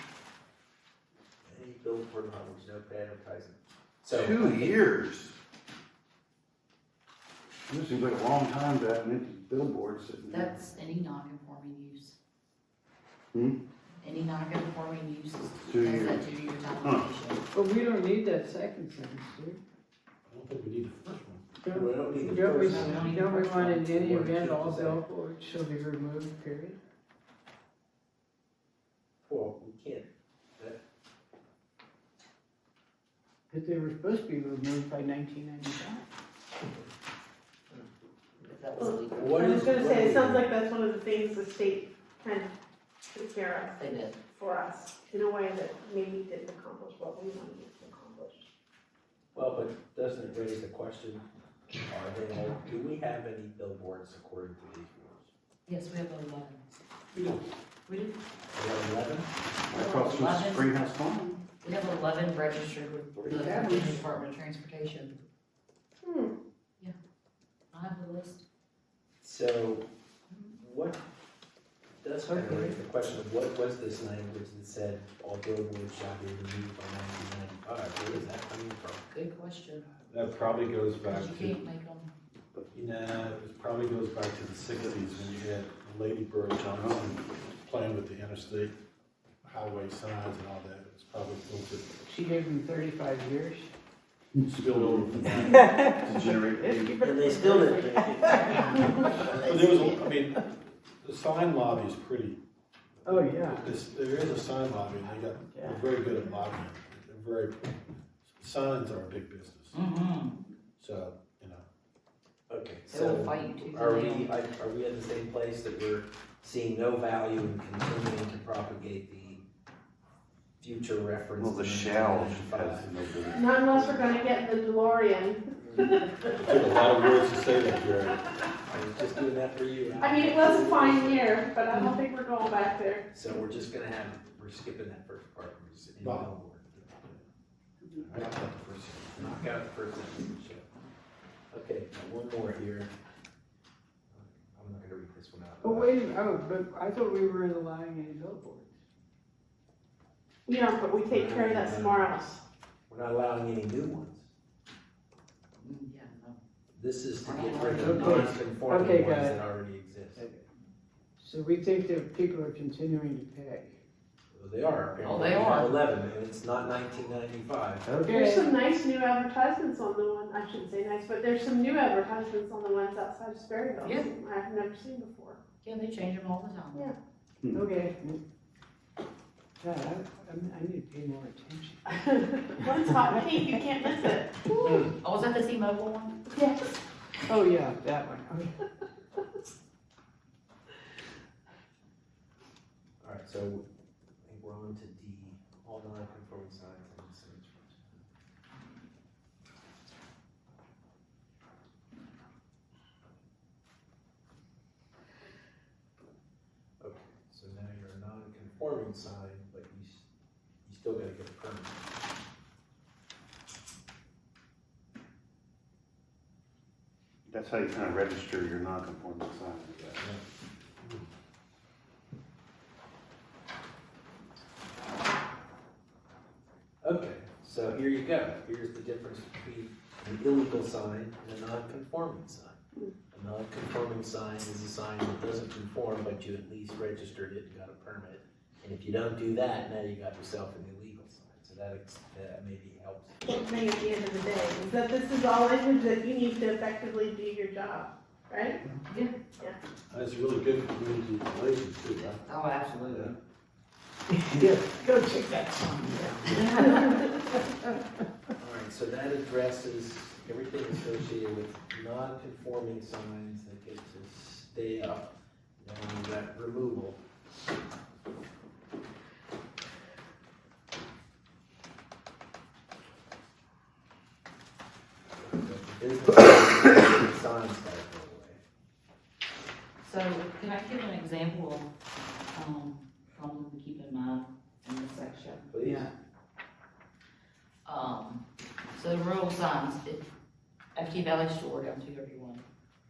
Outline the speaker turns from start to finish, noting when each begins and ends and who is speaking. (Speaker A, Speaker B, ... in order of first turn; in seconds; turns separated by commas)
Speaker A: 1.4-4.8, Speaker B: 4.1-5.4, Speaker B: 7.7-10.6, Speaker C: 10.3-12.2, Speaker C: 14.0-17.4, Speaker B: 15.5-16.2, Speaker B: 16.8-17.1, Speaker D: 17.5-19.6, Speaker E: 20.3-21.4, Speaker D: 21.6-26.8, Speaker A: 21.7-25.0, Speaker C: 22.8-23.9, Speaker A: 29.2-30.1, Speaker D: 33.5-36.0, Speaker C: 38.4-39.3, Speaker F: 38.8-42.5, Speaker A: 39.2-40.5, Speaker F: 43.1-48.5, Speaker C: 43.8-44.2, Speaker A: 49.3-51.2, Speaker A: 51.9-55.3, Speaker C: 55.7-56.8, Speaker E: 57.1-57.4, Speaker C: 57.9-58.2, Speaker A: 58.5-59.3, Speaker B: 59.7-61.4, Speaker C: 59.7-60.7, Speaker C: 61.5-65.2, Speaker B: 63.2-63.4, Speaker D: 63.4-63.8, Speaker F: 66.0-66.3, Speaker C: 67.7-68.4, Speaker A: 69.2-69.9, Speaker C: 70.3-70.6, Speaker A: 70.6-71.0, Speaker A: 72.0-79.0, Speaker D: 72.2-72.8, Speaker C: 79.1-82.1, Speaker E: 80.1-81.6, Speaker E: 82.7-88.7, Speaker B: 86.7-87.2, Speaker E: 89.4-91.9, Speaker D: 92.0-93.7, Speaker E: 94.4-95.5, Speaker B: 94.6-97.0, Speaker D: 95.5-99.4, Speaker A: 97.0-98.9, Speaker C: 98.3-99.7, Speaker E: 99.2-100.4, Speaker E: 101.0-102.4, Speaker D: 103.0-103.6, Speaker E: 103.3-109.8, Speaker D: 105.5-105.8, Speaker C: 109.7-110.4, Speaker E: 110.8-111.6, Speaker A: 112.5-119.4, Speaker C: 112.9-114.3, Speaker A: 120.6-122.9, Speaker B: 121.4-124.1, Speaker F: 123.3-126.7, Speaker E: 126.4-128.2, Speaker F: 128.1-128.3, Speaker A: 128.7-131.4, Speaker F: 130.0-133.1, Speaker A: 133.1-137.2, Speaker E: 136.0-136.3, Speaker E: 138.0-139.2, Speaker A: 139.2-140.7, Speaker A: 141.5-142.9, Speaker A: 144.1-145.9, Speaker D: 145.6-148.7, Speaker F: 150.5-152.4, Speaker A: 151.1-152.2, Speaker A: 152.9-154.3, Speaker C: 155.6-156.4, Speaker A: 156.7-160.2, Speaker C: 157.2-158.2, Speaker D: 157.7-159.4, Speaker D: 160.2-160.4, Speaker D: 161.2-163.8, Speaker A: 164.3-167.9, Speaker C: 165.0-165.8, Speaker D: 167.8-168.5, Speaker F: 168.1-175.4, Speaker C: 173.8-174.1, Speaker C: 175.6-176.9, Speaker B: 177.4-177.7, Speaker D: 177.5-178.2, Speaker D: 179.6-182.0, Speaker F: 182.0-184.8, Speaker D: 182.6-183.9, Speaker D: 184.6-184.9, Speaker C: 184.8-186.2, Speaker F: 186.3-186.8, Speaker D: 187.3-188.5, Speaker A: 193.0-193.7, Speaker A: 194.2-198.0, Speaker A: 206.8-210.1, Speaker A: 210.7-211.8, Speaker B: 217.3-220.2, Speaker A: 226.8-232.6, Speaker A: 233.1-243.2, Speaker F: 243.3-248.6, Speaker C: 248.9-249.1, Speaker E: 249.9-252.2, Speaker C: 252.3-253.1, Speaker E: 252.8-253.2, Speaker D: 254.1-257.1, Speaker C: 256.2-256.7, Speaker A: 258.4-265.1, Speaker A: 265.6-267.0, Speaker A: 275.1-278.4, Speaker C: 279.8-281.7, Speaker C: 282.3-285.5, Speaker A: 285.5-285.9, Speaker D: 285.6-285.9, Speaker C: 287.6-288.2, Speaker C: 288.8-290.0, Speaker C: 290.8-292.4